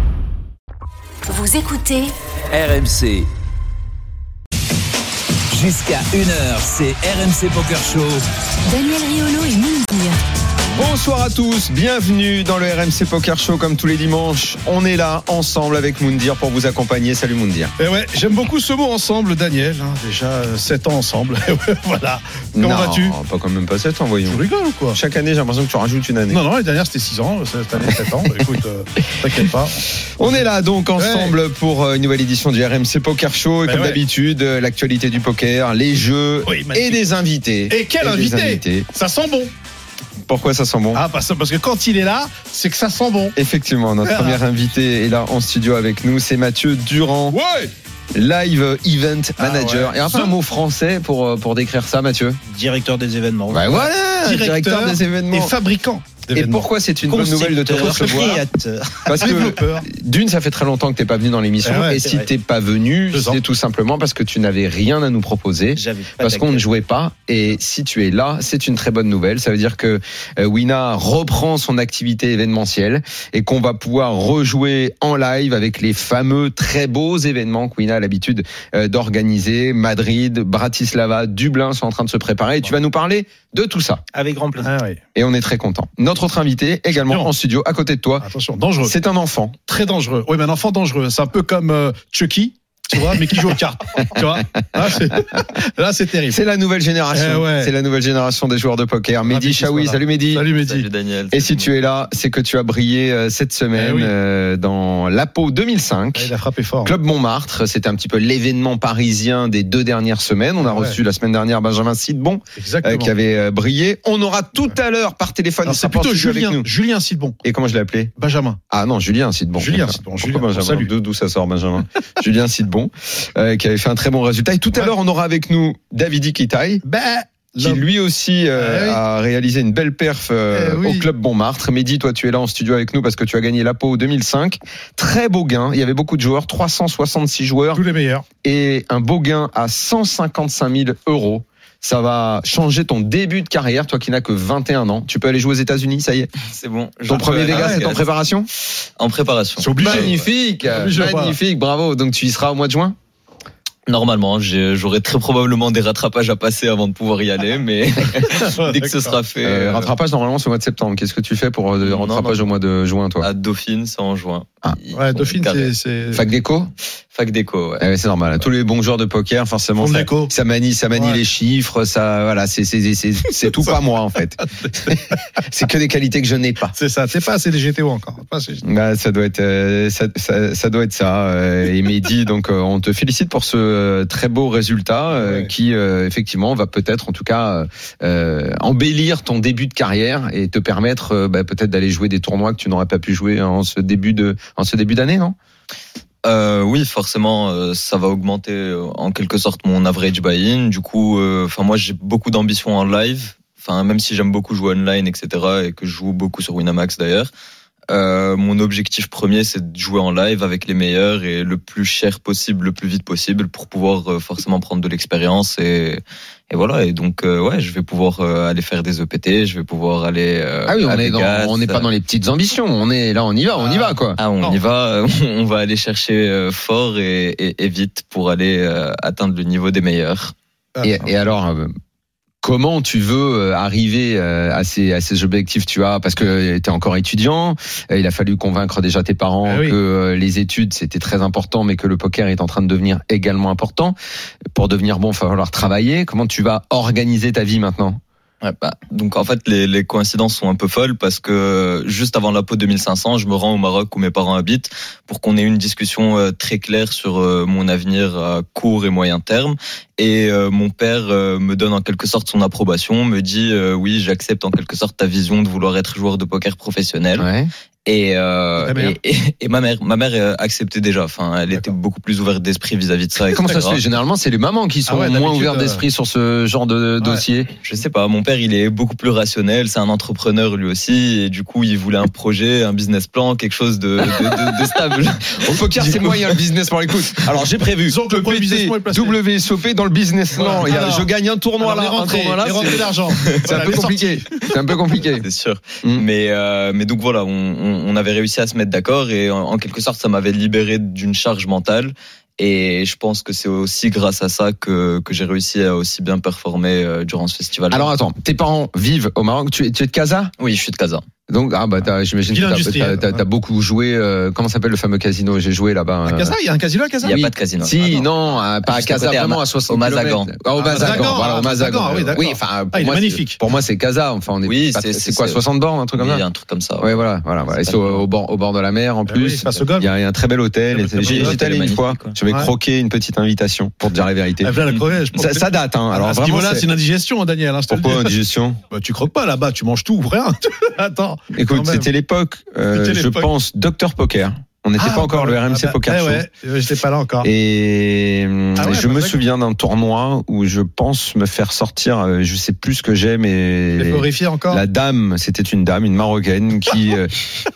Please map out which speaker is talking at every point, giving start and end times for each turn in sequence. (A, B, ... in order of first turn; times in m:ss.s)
0:01.2-0:02.1 A
0:02.5-0:03.3 B
0:05.5-0:08.2 B
0:08.6-0:10.2 A
0:10.7-0:17.7 C
0:17.8-0:23.2 D
0:22.5-0:24.4 C
0:24.2-0:25.0 D
0:24.9-0:26.4 C
0:26.3-0:30.4 D
0:30.2-0:38.9 C
0:31.0-0:31.4 D
0:33.6-0:34.0 D
0:36.4-0:37.1 D
0:37.7-0:39.5 D
0:40.3-0:41.0 C
0:40.9-0:43.4 D
0:43.3-0:47.4 C
0:44.0-0:44.4 D
0:47.3-0:47.7 D
0:48.1-0:52.4 C
0:49.4-0:50.3 D
0:52.5-0:53.9 E
0:53.5-0:55.5 C
0:54.2-0:56.7 D
0:56.3-0:58.4 C
0:57.1-0:59.2 E
0:59.0-1:24.0 C
0:59.1-0:59.9 D
1:01.6-1:02.1 D
1:03.1-1:03.4 D
1:05.7-1:06.6 E
1:24.1-1:24.7 E
1:24.6-1:25.0 D
1:25.1-1:28.2 C
1:26.9-1:27.3 D
1:28.2-1:29.0 D
1:28.8-1:29.6 C
1:29.7-1:36.4 D
1:35.1-1:35.4 C
1:36.3-1:40.5 C
1:37.1-1:37.7 D
1:39.2-1:40.9 D
1:40.5-1:41.7 F
1:41.3-1:46.3 C
1:43.7-1:44.1 D
1:46.2-1:46.9 D
1:46.8-1:56.6 C
1:50.6-1:51.0 D
1:52.6-1:53.1 D
1:55.6-1:57.4 D
1:57.4-1:58.1 C
1:58.2-1:58.6 D
1:58.7-2:06.8 C
1:59.6-2:00.9 D
2:06.8-2:07.9 D
2:07.6-2:17.8 C
2:08.5-2:09.0 D
2:10.5-2:11.1 D
2:17.7-2:18.2 D
2:18.4-2:26.3 C
2:26.5-2:28.0 F
2:27.1-2:28.5 C
2:27.5-2:27.8 D
2:29.0-2:30.2 F
2:29.6-2:31.4 D
2:29.8-2:33.0 C
2:33.9-2:39.9 F
2:38.3-2:39.2 D
2:39.4-2:43.3 C
2:41.8-2:42.4 F
2:43.2-2:45.7 F
2:44.9-2:46.2 D
2:46.1-2:46.7 C
2:47.1-2:47.8 F
2:47.8-2:56.7 C
2:49.8-2:50.3 D
2:50.9-2:51.2 D
2:53.4-2:53.8 D
2:54.4-2:55.2 D
2:56.7-2:58.6 D
2:58.6-3:15.3 C
3:05.1-3:05.5 D
3:16.2-3:27.3 F
3:27.9-3:41.9 F
3:40.7-3:44.2 C
3:43.6-3:44.6 D
3:44.2-3:50.3 F
3:50.8-3:51.7 C
3:52.4-4:03.9 C
3:59.4-3:59.8 D
4:04.5-4:08.0 C
4:08.4-4:27.3 F
4:27.2-4:27.5 C
4:27.8-4:33.8 F
4:28.6-4:29.0 D
4:33.3-4:37.5 C
4:34.9-4:35.8 D
4:37.6-4:46.3 F
4:45.4-4:55.2 C
4:47.9-4:49.2 D
4:50.3-4:54.4 D
4:55.2-5:07.9 F
5:07.7-5:10.3 C
5:10.4-5:11.0 F
5:11.3-5:16.3 C
5:12.3-5:13.2 D
5:16.0-5:17.2 D
5:17.0-5:18.1 F
5:17.0-5:26.2 C
5:18.6-5:21.1 F
5:20.6-5:23.4 D
5:24.4-5:25.4 F
5:25.9-5:26.9 F
5:26.8-5:36.7 C
5:27.5-5:28.0 F
5:29.1-5:29.9 D
5:30.7-5:31.4 D
5:31.0-5:32.1 F
5:34.4-5:38.2 D
5:37.7-5:38.6 C
5:38.7-5:41.9 D
5:41.3-5:46.2 C
5:42.7-5:43.3 D
5:44.8-5:47.3 D
5:47.2-5:57.2 C
5:48.6-5:49.2 D
5:53.8-5:54.6 D